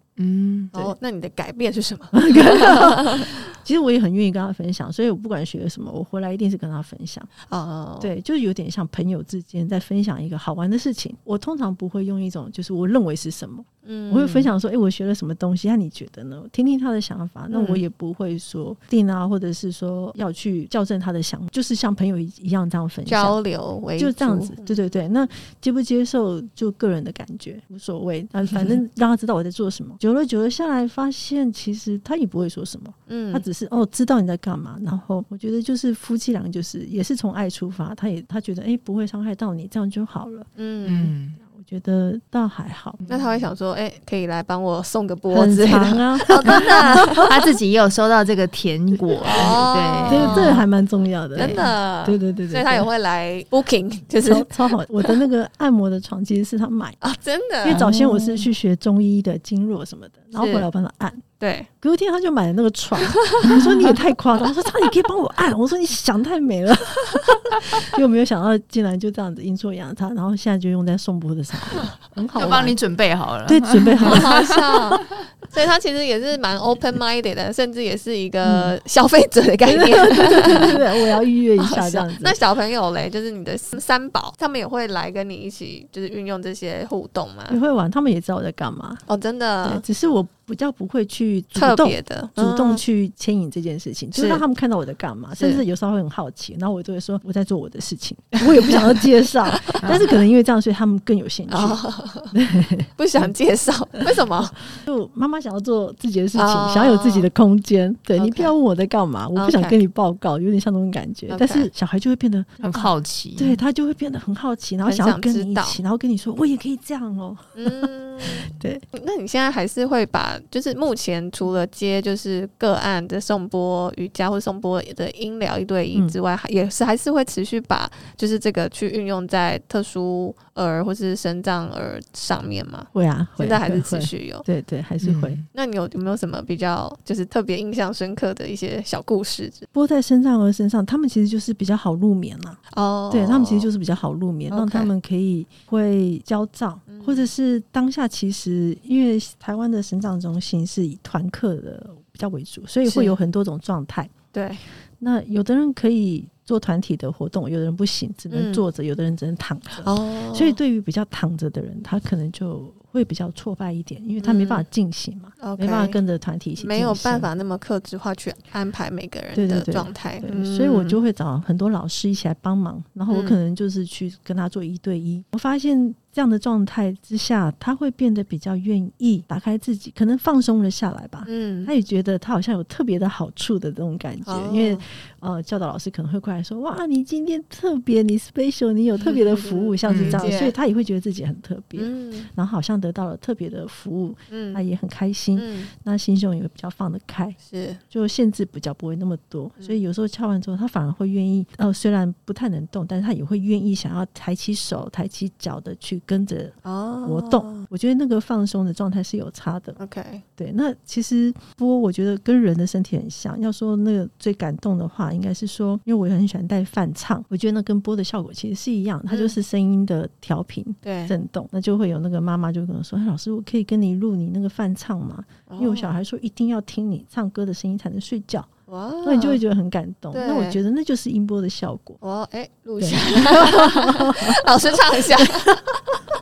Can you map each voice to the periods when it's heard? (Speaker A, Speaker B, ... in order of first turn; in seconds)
Speaker A: 0.2-0.7, 40.9-41.4, 46.5-50.6, 51.4-51.6, 57.7-58.5, 72.3-74.6, 112.6-113.6, 135.0-135.4, 189.8-190.2
Speaker B: 0.7-3.4, 7.5-8.1, 13.8-14.5, 17.5-17.8, 23.1-24.9, 33.1-33.4, 40.6-41.1, 43.0-47.3, 49.2-50.6, 51.3-55.1, 57.0-57.8, 60.4-60.7, 61.4-61.7, 63.1-63.7, 74.0-87.6, 89.1-89.8, 91.5-92.8, 94.1-94.4, 95.3-95.6, 98.4-98.8, 99.5-100.1, 101.5-102.3, 103.0-104.6, 106.3-107.3, 108.2-108.5, 109.3-109.8, 111.3-111.7, 114.8-115.8, 117.5-134.4, 135.5-139.7, 142.7-143.7, 144.5-144.9, 146.9-147.3, 152.8-153.2, 154.3-154.6, 158.3-158.6, 159.8-160.6, 164.2-164.6, 165.4-166.0, 166.6-171.0, 173.1-173.4, 181.2-181.7, 184.2-184.8, 189.0-190.5, 191.8-192.3, 194.3-194.6, 195.3-195.7, 197.4-197.8, 206.6-207.7, 209.8-210.2, 219.1-219.3, 220.8-221.1, 225.5-225.9, 228.7-229.4, 230.1-230.6, 232.0-235.6
Speaker C: 2.1-7.3, 8.0-23.4, 24.0-40.5, 41.4-43.0, 45.3-47.3, 50.1-52.9, 54.2-57.0, 57.6-61.2, 61.8-72.8, 73.4-74.6, 78.4-78.7, 79.6-82.4, 87.5-89.0, 89.6-101.8, 102.3-103.3, 104.0-118.8, 132.9-135.4, 139.7-154.1, 155.0-167.3, 169.3-197.4, 197.9-209.8, 210.4-228.5, 229.0-232.0, 232.8-236.0